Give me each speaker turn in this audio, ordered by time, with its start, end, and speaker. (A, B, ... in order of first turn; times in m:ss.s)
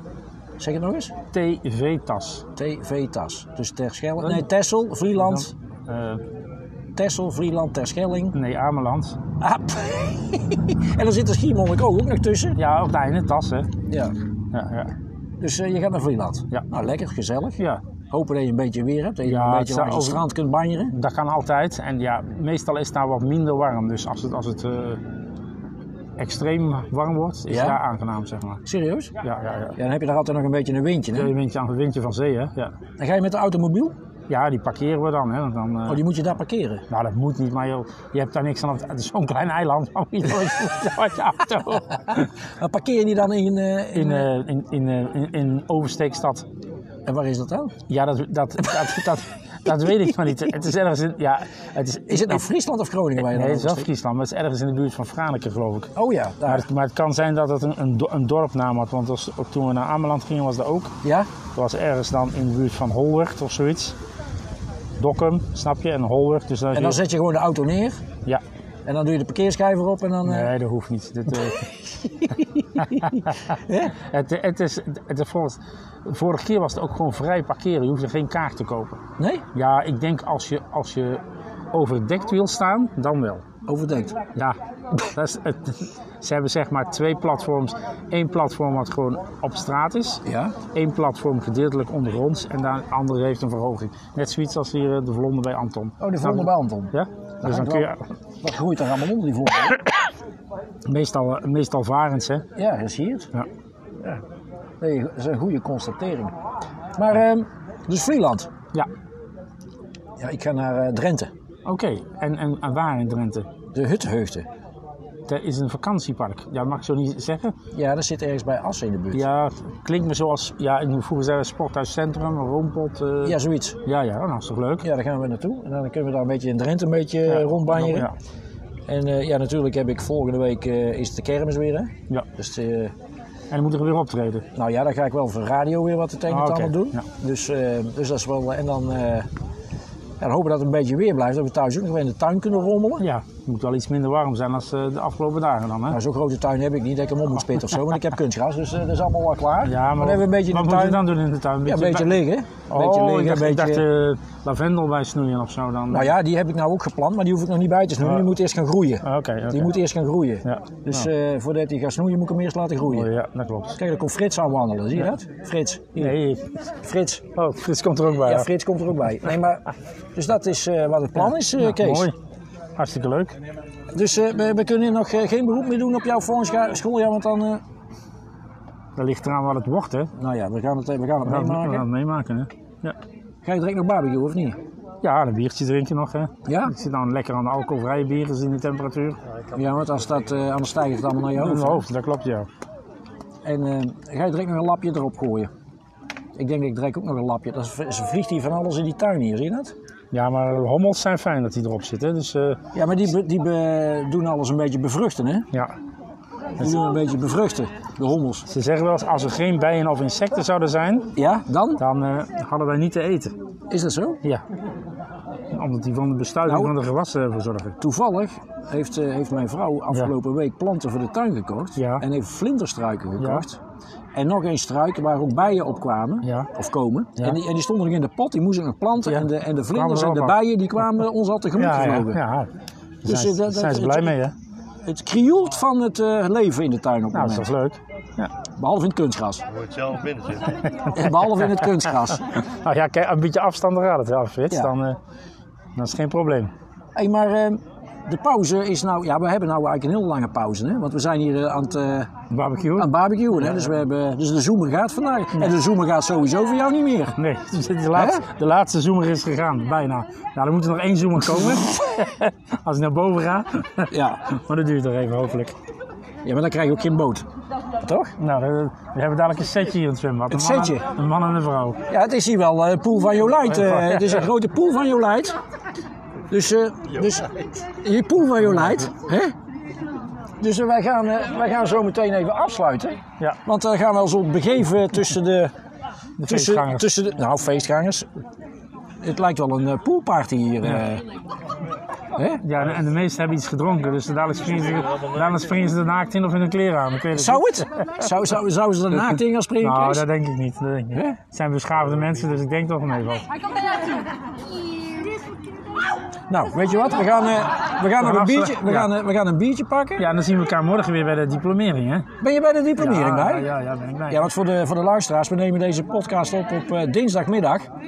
0:00.6-0:01.2 A
0:01.3-0:02.4 B
0:02.5-0:05.5 A
0:05.2-0:06.2 B
0:07.0-0:08.4 A
0:08.3-0:09.2 B
0:09.4-0:12.6 A
0:12.6-0:13.7 B
0:13.8-0:14.1 A
0:14.5-0:14.9 B
0:15.4-0:20.9 A
0:19.2-0:20.2 B
0:20.9-0:25.0 B
0:26.2-0:28.6 B
0:27.5-0:27.8 A
0:28.6-0:29.1 A
0:29.2-0:29.8 B
0:29.7-0:31.3 A
0:31.2-0:32.8 B
0:33.0-0:33.9 A
0:34.3-0:36.0 B
0:35.9-0:36.8 A
0:36.9-0:42.3 B
0:42.1-0:44.3 A
0:43.9-0:46.4 B
0:47.0-0:47.8 A
0:47.9-0:52.4 B
0:52.1-0:53.9 A
0:53.2-0:55.9 B
0:55.9-0:56.7 A
0:56.4-1:00.9 B
1:01.0-1:01.4 A
1:01.5-1:04.0 B
1:05.0-1:07.0 B
1:06.7-1:08.0 A
1:08.8-1:10.5 A
1:10.2-1:11.8 B
1:12.2-1:14.0 A
1:12.8-1:19.0 B
1:19.2-1:19.5 A
1:19.5-1:23.4 B
1:23.6-1:24.2 A
1:24.3-1:38.1 B
1:30.2-1:30.6 A
1:36.0-1:37.9 A
1:38.4-1:40.0 A
1:40.9-1:42.4 B
1:42.5-1:43.3 A
1:44.8-1:46.3 A
1:47.0-1:48.5 A
1:50.2-1:51.3 A
1:51.6-1:53.5 B
1:53.7-1:54.4 A
1:55.3-1:57.5 B
1:57.7-1:59.2 A
1:59.1-2:04.8 B
2:03.2-2:03.8 A
2:04.8-2:08.1 A
2:07.3-2:08.1 B
2:08.9-2:12.9 A
2:13.5-2:14.4 B
2:14.5-2:19.3 A
2:16.3-2:17.0 B
2:20.2-2:23.1 A
2:23.0-2:26.0 B
2:25.9-2:31.1 A
2:29.6-2:32.2 B
2:31.6-2:33.9 A
2:32.7-2:36.1 B
2:35.9-2:43.1 A
2:39.0-2:39.7 B
2:40.4-2:41.1 B
2:42.9-2:43.8 B
2:43.7-2:47.3 A
2:46.0-2:46.5 B
2:47.3-2:48.4 B
2:48.2-2:52.1 A
2:51.3-2:52.1 B
2:52.8-2:53.4 B
2:53.9-2:57.6 A
2:59.0-3:00.1 B
3:00.1-3:01.9 A
3:01.2-3:03.0 B
3:03.4-3:04.6 A
3:05.0-3:09.2 B
3:06.4-3:06.8 A
3:09.5-3:11.9 A
3:11.4-3:12.5 B
3:13.4-3:15.5 A
3:16.4-3:19.7 A
3:20.1-3:22.6 B
3:22.7-3:25.4 A
3:26.6-3:28.5 A
3:28.5-3:31.1 B
3:31.1-3:31.8 A
3:31.8-3:33.3 B
3:33.7-3:34.2 A
3:35.5-3:37.8 B
3:36.4-3:36.7 A
3:37.8-3:43.6 A
3:41.8-3:42.0 B
3:43.2-3:43.4 B
3:44.1-3:52.2 A
3:46.2-3:46.5 B
3:49.0-3:50.4 B
3:51.6-3:52.5 B
3:53.0-3:54.2 A
3:53.0-3:54.3 B
3:54.8-3:57.5 A
3:57.1-3:58.3 B
3:58.4-3:59.4 A
4:00.4-4:00.8 B
4:00.8-4:02.3 A
4:02.3-4:05.0 B
4:05.8-4:06.5 B
4:06.9-4:12.1 A
4:12.3-4:12.9 B
4:12.8-4:17.1 A
4:17.2-4:25.5 B
4:17.9-4:18.3 A
4:23.9-4:24.3 A
4:26.2-4:27.2 A
4:27.8-4:28.1 A
4:28.2-4:31.8 B
4:30.3-4:30.9 A
4:31.9-4:35.3 A
4:33.5-4:34.1 B
4:36.3-4:39.3 A
4:40.4-4:45.5 A
4:46.2-4:46.9 B
4:46.2-4:48.1 A
4:49.0-4:51.0 A
4:52.1-4:52.4 A
4:52.4-4:57.4 B
4:57.1-5:00.1 A
4:59.6-5:03.4 B
5:00.9-5:01.2 A
5:06.3-5:10.0 A
5:08.0-5:08.9 B
5:10.0-5:12.1 B
5:12.2-5:13.5 A
5:12.8-5:14.3 B
5:14.1-5:17.7 A